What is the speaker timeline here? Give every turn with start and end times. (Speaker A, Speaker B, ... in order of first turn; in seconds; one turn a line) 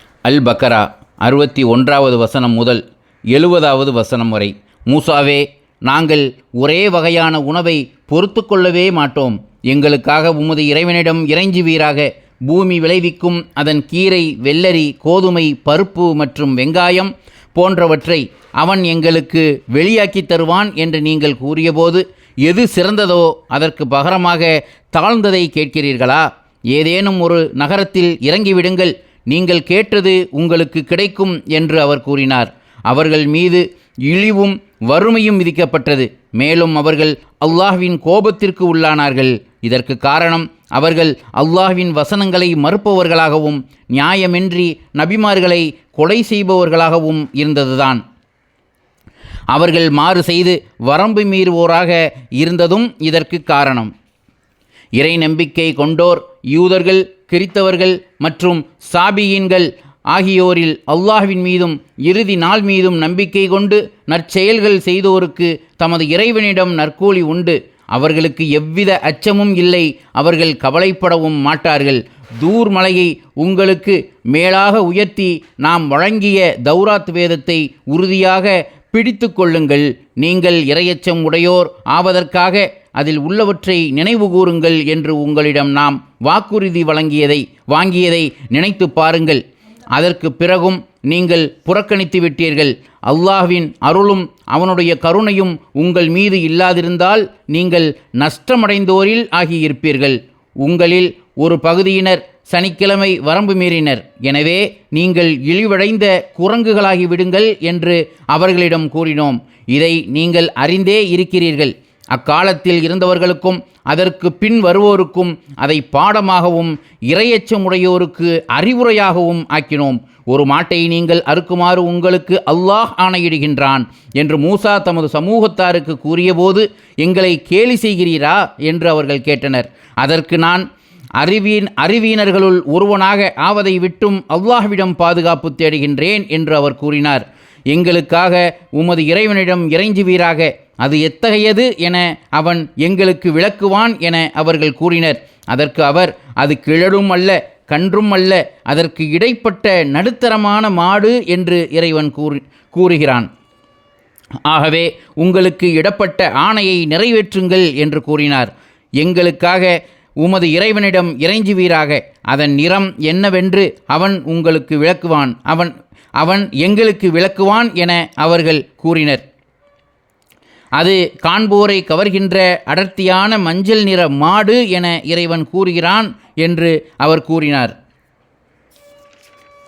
Speaker A: 0.2-48.0
Speaker A: 49.5-53.9
Speaker A: 55.0-89.4
Speaker A: 89.9-130.7
Speaker A: 131.2-153.3
Speaker A: 154.4-169.2
Speaker A: 170.8-177.7